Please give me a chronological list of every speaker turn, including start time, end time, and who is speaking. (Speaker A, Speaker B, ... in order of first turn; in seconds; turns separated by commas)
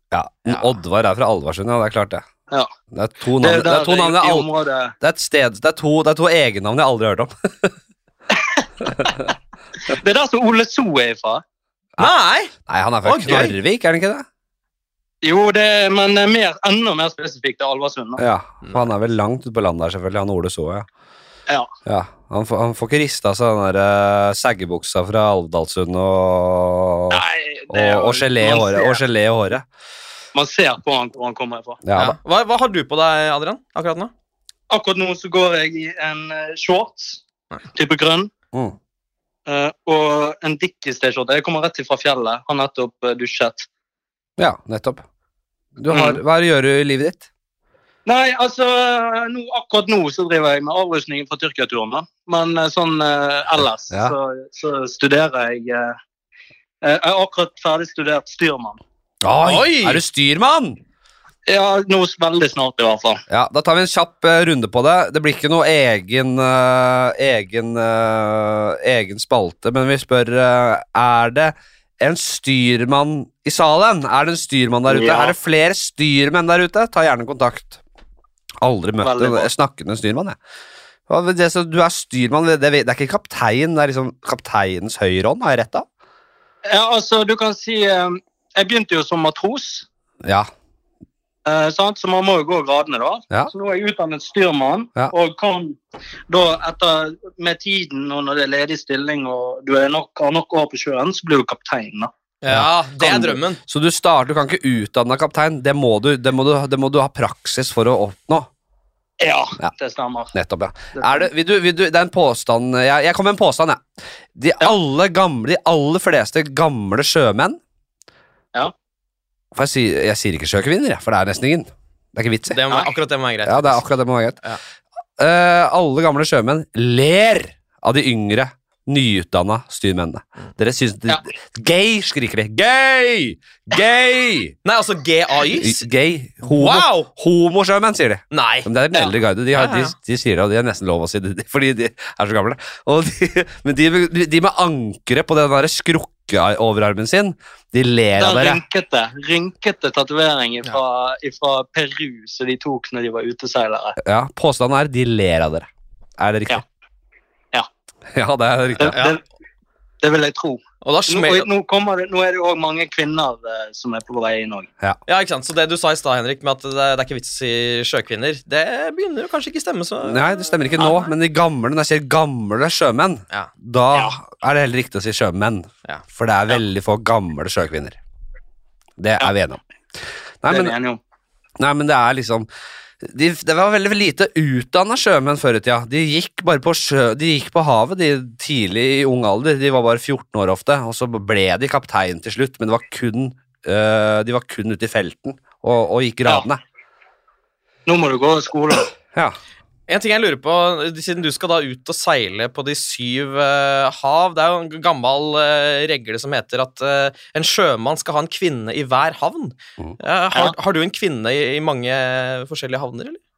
Speaker A: 0.1-2.2, Speaker A: 2.9-4.5, Speaker B: 3.4-4.9, Speaker A: 5.0-7.7, Speaker B: 8.3-9.2, Speaker B: 9.9-11.4, Speaker C: 12.0-13.5, Speaker A: 12.7-14.3, Speaker B: 15.2-18.2, Speaker A: 18.2-20.9, Speaker A: 21.9-29.6, Speaker B: 27.1-29.0, Speaker B: 30.4-31.8, Speaker A: 31.9-32.2, Speaker C: 32.0-34.1, Speaker B: 34.7-37.2, Speaker B: 37.7-38.3, Speaker B: 39.5-43.7, Speaker A: 44.4-45.0, Speaker A: 45.8-47.3, Speaker B: 45.9-46.2, Speaker B: 48.1-56.0, Speaker B: 56.8-58.8, Speaker A: 59.2-60.8, Speaker C: 59.4-60.0, Speaker B: 61.5-63.2, Speaker A: 63.3-77.8, Speaker B: 74.9-75.3, Speaker A: 78.6-80.4, Speaker B: 79.0-79.5, Speaker A: 81.1-85.9, Speaker B: 86.7-89.9, Speaker A: 90.2-90.5, Speaker B: 91.5-95.8, Speaker B: 96.3-102.1, Speaker C: 102.4-103.6, Speaker A: 102.5-108.5, Speaker B: 109.2-110.3, Speaker A: 110.3-113.8, Speaker B: 110.9-111.3, Speaker A: 114.4-117.6, Speaker A: 119.5-122.6, Speaker C: 122.5-123.8, Speaker A: 123.5-124.4, Speaker A: 125.2-134.6, Speaker C: 134.7-135.8, Speaker A: 135.5-148.6, Speaker C: 136.5-137.1, Speaker C: 138.3-138.7, Speaker C: 139.5-139.9, Speaker B: 148.2-154.0, Speaker A: 154.0-155.7, Speaker A: 156.2-156.6, Speaker A: 158.1-159.0, Speaker B: 158.8-159.2, Speaker C: 158.9-159.2, Speaker B: 160.0-164.7, Speaker C: 160.8-161.5, Speaker C: 165.1-171.0, Speaker A: 170.1-178.0, Speaker A: 179.0-179.6, Speaker A: 180.4-180.7, Speaker B: 180.5-181.0, Speaker A: 181.6-182.5, Speaker A: 183.0-196.6, Speaker B: 197.9-198.9, Speaker C: 199.9-213.2